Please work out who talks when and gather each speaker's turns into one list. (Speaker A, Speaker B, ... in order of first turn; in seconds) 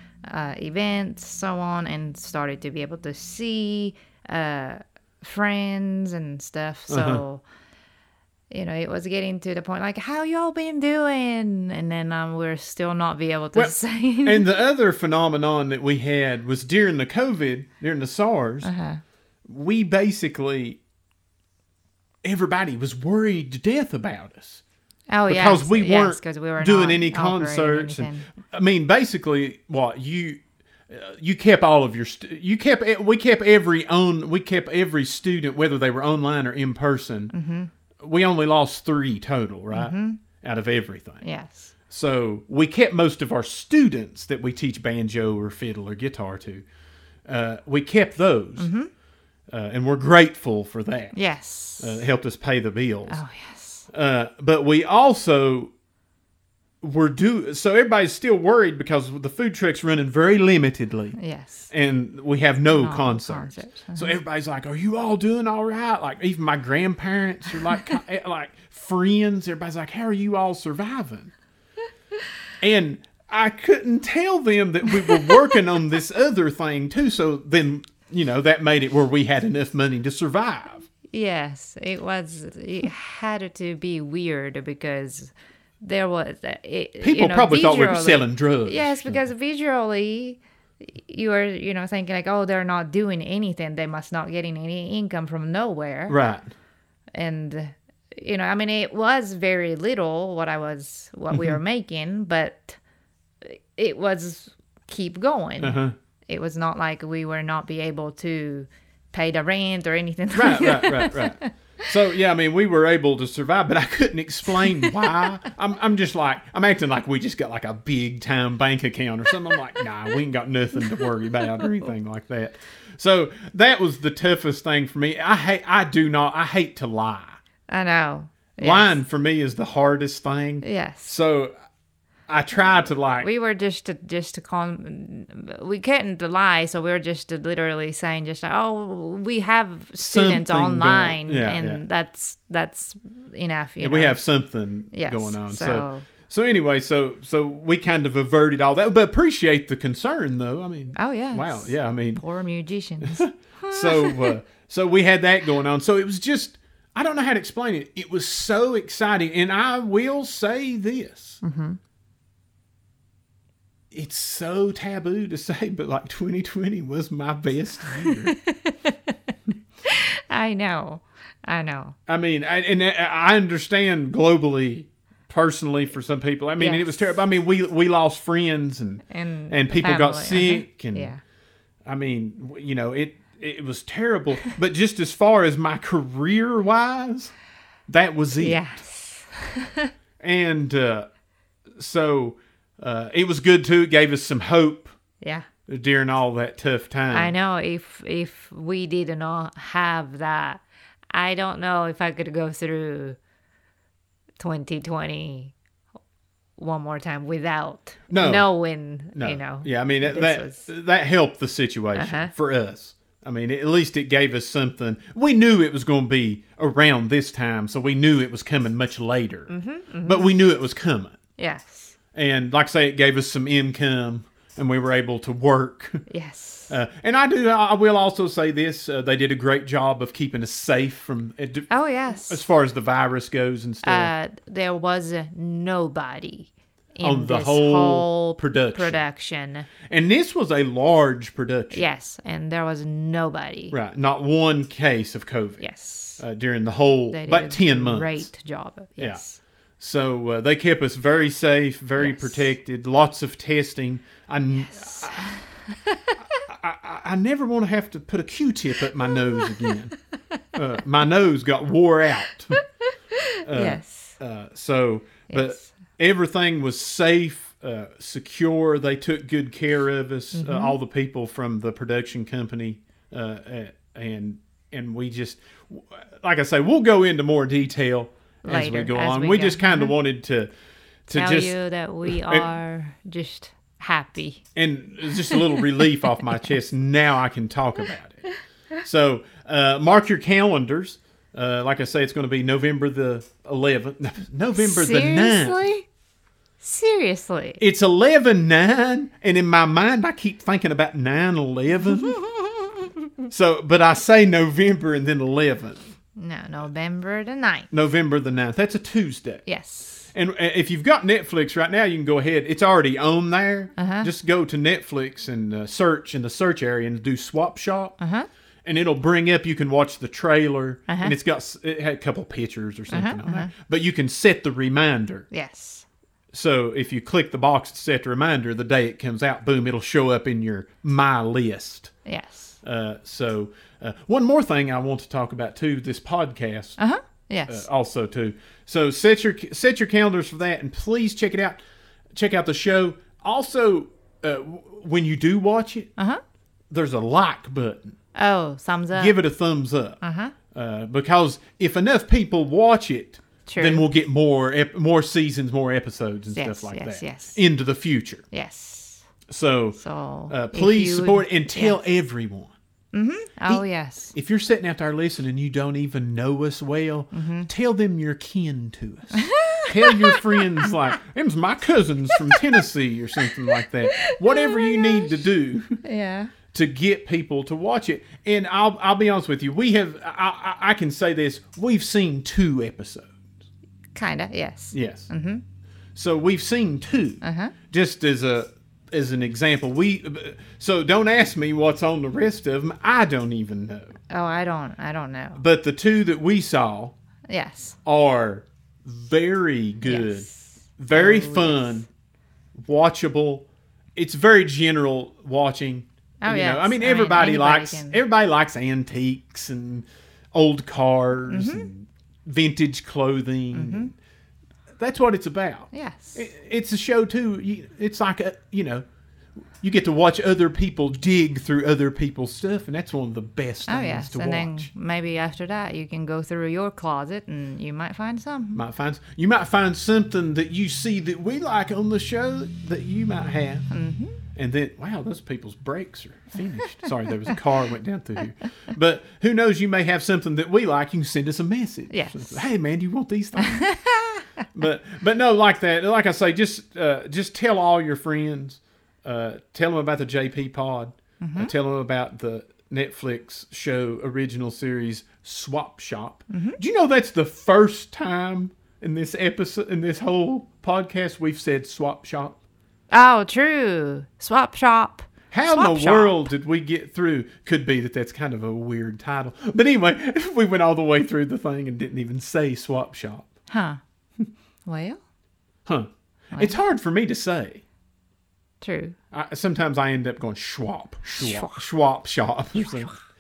Speaker A: 0.2-7.4, 8.5-14.5, 18.6-19.0, 25.1-28.3, 37.3-37.7, 39.7-40.2, 41.2-41.7, 48.6-48.9, 51.1-52.0, 53.1-53.9, 61.2-61.7, 62.7-64.2, 75.0-75.4, 81.0-96.2, 97.1-102.8, 103.4-111.5, 114.6-115.1, 121.0-121.7, 127.7-129.0, 130.6-131.1, 133.2-144.2, 144.9-146.1, 150.9-154.4, 161.4-161.8, 168.0-169.3, 169.8-171.9, 176.6-176.9, 179.1-181.2, 188.4-189.9, 195.2-195.5, 197.1-200.6, 201.1-203.2, 204.4-205.5, 206.6-210.7, 211.9-212.3, 219.5-220.4, 221.4-221.9, 226.1-226.7, 231.7-232.4, 233.8-239.7, 241.7-243.7, 245.6-246.2, 247.1-249.4, 252.0-252.4, 254.8-256.4, 259.0-259.8, 262.5-264.2, 265.3-265.7, 270.4-270.8, 278.4-279.9, 281.1-284.4, 285.3-286.3, 294.6-295.9, 296.6-297.6, 301.8-302.9, 306.1-307.7, 309.4-310.1, 313.8-314.1, 318.0-318.3, 320.9-321.1, 322.9-323.5, 325.3-325.9, 332.0-332.6, 336.8-337.6, 348.1-349.2, 350.0-350.4, 353.4-353.9, 356.3-357.4, 358.3-359.1, 359.8-361.8, 362.9-364.1, 367.1-367.5, 369.2-370.7, 374.0-375.1, 375.8-376.3, 383.9-385.4, 387.2-387.5, 394.1-395.4, 397.3-397.8, 399.8-401.8, 406.2-408.0, 411.3-411.7, 413.5-413.9, 415.7-416.2, 423.7-428.6, 433.7-434.2, 441.9-442.4, 443.4-444.3, 451.2-451.5, 456.3-456.6, 462.9-466.3, 473.5-473.8, 474.6-475.0, 478.6-479.0, 481.2-481.6
Speaker B: 6.9-7.2, 13.5-18.7, 19.4-20.8, 22.2-24.6, 25.3-37.3, 38.0-41.2, 41.9-46.6, 47.2-48.7, 49.5-51.2, 51.8-53.2, 53.9-55.7, 56.8-61.2, 61.7-71.3, 72.6-80.9, 87.0-89.2, 96.1-96.5, 101.3-101.6, 105.6-105.9, 110.3-127.4, 128.6-131.5, 132.3-133.3, 140.0-141.8, 143.8-152.2, 153.0-161.4, 163.9-168.3, 172.1-181.1, 181.9-187.3, 187.9-188.6, 190.2-191.1, 191.8-194.9, 195.7-197.3, 208.1-208.5, 209.1-221.2, 222.1-226.0, 226.7-234.1, 237.0-239.0, 239.8-241.8, 243.7-245.6, 246.2-248.3, 249.8-255.4, 256.5-259.9, 260.5-262.6, 263.4-280.5, 281.1-281.6, 282.1-282.5, 284.5-295.6, 297.6-302.2, 303.3-305.8, 307.7-309.4, 310.1-318.0, 318.6-325.3, 326.3-331.9, 332.6-336.8, 337.5-341.6, 342.1-345.9, 346.7-348.0, 348.9-350.0, 350.5-358.2, 359.3-362.5, 363.5-375.8, 376.5-383.2, 384.7-385.1, 385.9-394.0, 395.4-396.9, 397.8-400.3, 400.8-401.9, 402.6-413.9, 414.8-418.8, 419.6-424.7, 428.6-433.7, 434.3-443.7, 444.5-462.4, 465.3-473.3, 475.6-477.6, 479.1-482.9